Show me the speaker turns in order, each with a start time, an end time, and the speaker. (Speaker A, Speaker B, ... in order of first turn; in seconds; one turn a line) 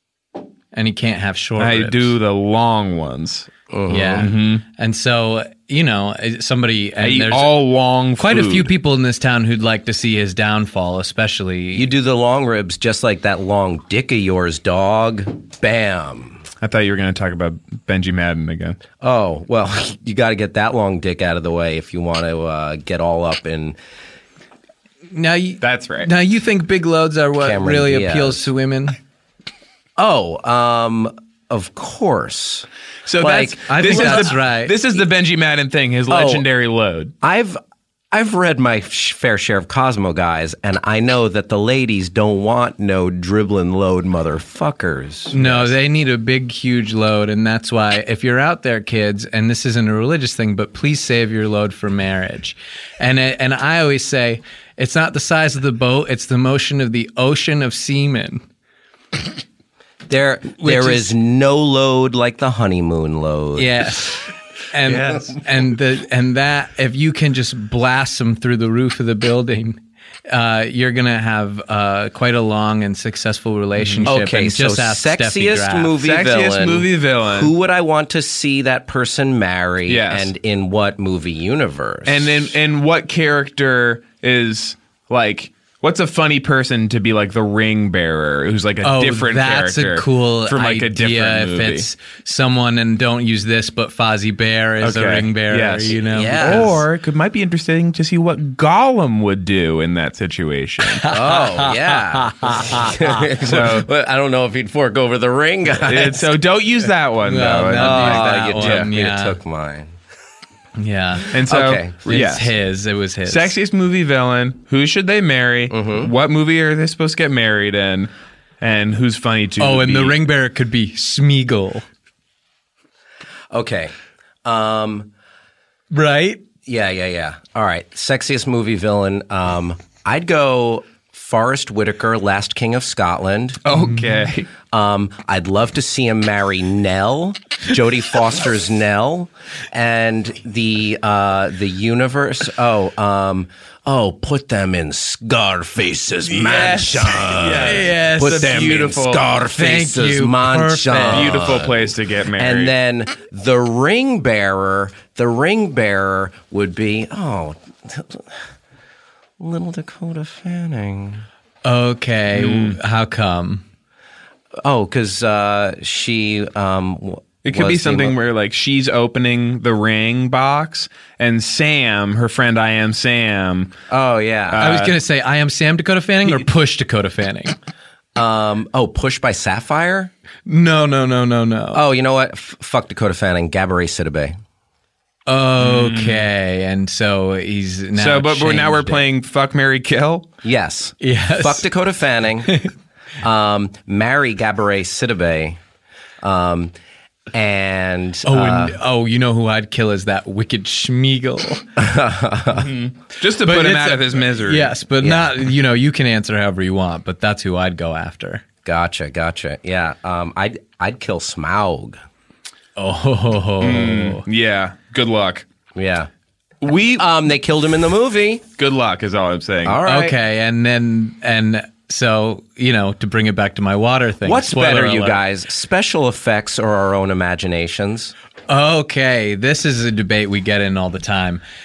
Speaker A: 0.7-2.1
Speaker B: 1.6-3.5
Speaker C: 3.7-4.3
Speaker A: 3.9-7.5
Speaker B: 4.1-4.6
Speaker B: 7.0-8.7
Speaker A: 8.2-11.9
Speaker C: 11.7-16.4
Speaker B: 16.6-18.8
Speaker C: 19.0-23.8
Speaker A: 25.1-28.9
Speaker B: 25.6-26.1
Speaker C: 27.4-28.5
Speaker C: 30.0-32.7
Speaker B: 33.0-37.1
Speaker C: 33.2-34.4
Speaker A: 33.6-34.7
Speaker C: 36.1-36.5
Speaker C: 37.2-37.6
Speaker C: 38.1-45.7
Speaker A: 45.3-58.4
Speaker C: 60.1-64.0
Speaker A: 60.6-61.1
Speaker A: 63.6-69.8
Speaker A: 70.3-75.9
Speaker B: 73.8-74.1
Speaker C: 74.0-82.5
Speaker B: 76.0-77.5
Speaker B: 79.9-80.3
Speaker B: 82.0-91.9
Speaker A: 88.8-96.8
Speaker B: 94.8-101.1
Speaker C: 96.1-96.8
Speaker A: 100.8-103.2
Speaker C: 101.0-106.4
Speaker B: 103.4-103.9
Speaker B: 105.8-108.9
Speaker A: 107.2-109.4
Speaker C: 107.7-110.0
Speaker A: 110.8-111.3
Speaker B: 111.3-112.5
Speaker C: 111.5-112.0
Speaker A: 112.0-113.5
Speaker B: 113.2-118.1
Speaker C: 115.7-116.1
Speaker B: 118.6-120.2
Speaker A: 119.6-121.8
Speaker C: 123.5-123.9
Speaker C: 124.4-125.1
Speaker A: 125.9-126.4
Speaker C: 126.7-133.6
Speaker B: 133.6-134.5
Speaker C: 134.7-158.4
Speaker B: 146.3-149.3
Speaker A: 147.5-148.8
Speaker A: 149.5-151.6
Speaker B: 151.1-152.7
Speaker C: 159.4-161.2
Speaker A: 161.6-163.6
Speaker B: 162.3-162.8
Speaker C: 164.6-168.2
Speaker B: 167.4-173.8
Speaker C: 173.9-174.7
Speaker B: 174.5-174.9
Speaker A: 174.6-177.5
Speaker C: 178.2-180.1
Speaker A: 180.4-181.8
Speaker C: 181.7-184.3
Speaker A: 185.3-189.0
Speaker B: 185.6-186.2
Speaker B: 188.0-190.3
Speaker C: 190.4-192.5
Speaker A: 191.0-191.7
Speaker A: 192.5-192.7
Speaker C: 193.2-195.6
Speaker C: 196.2-196.7
Speaker C: 197.3-198.8
Speaker A: 198.2-201.6
Speaker C: 201.8-202.8
Speaker B: 202.5-204.7
Speaker A: 203.4-208.4
Speaker C: 205.0-205.3
Speaker C: 208.6-212.0
Speaker A: 212.8-214.2
Speaker B: 213.6-215.4
Speaker C: 215.7-216.1
Speaker B: 216.6-217.1
Speaker C: 217.0-218.4
Speaker B: 218.6-219.8
Speaker C: 219.6-220.2
Speaker A: 219.8-225.2
Speaker C: 224.2-228.1
Speaker A: 228.5-231.4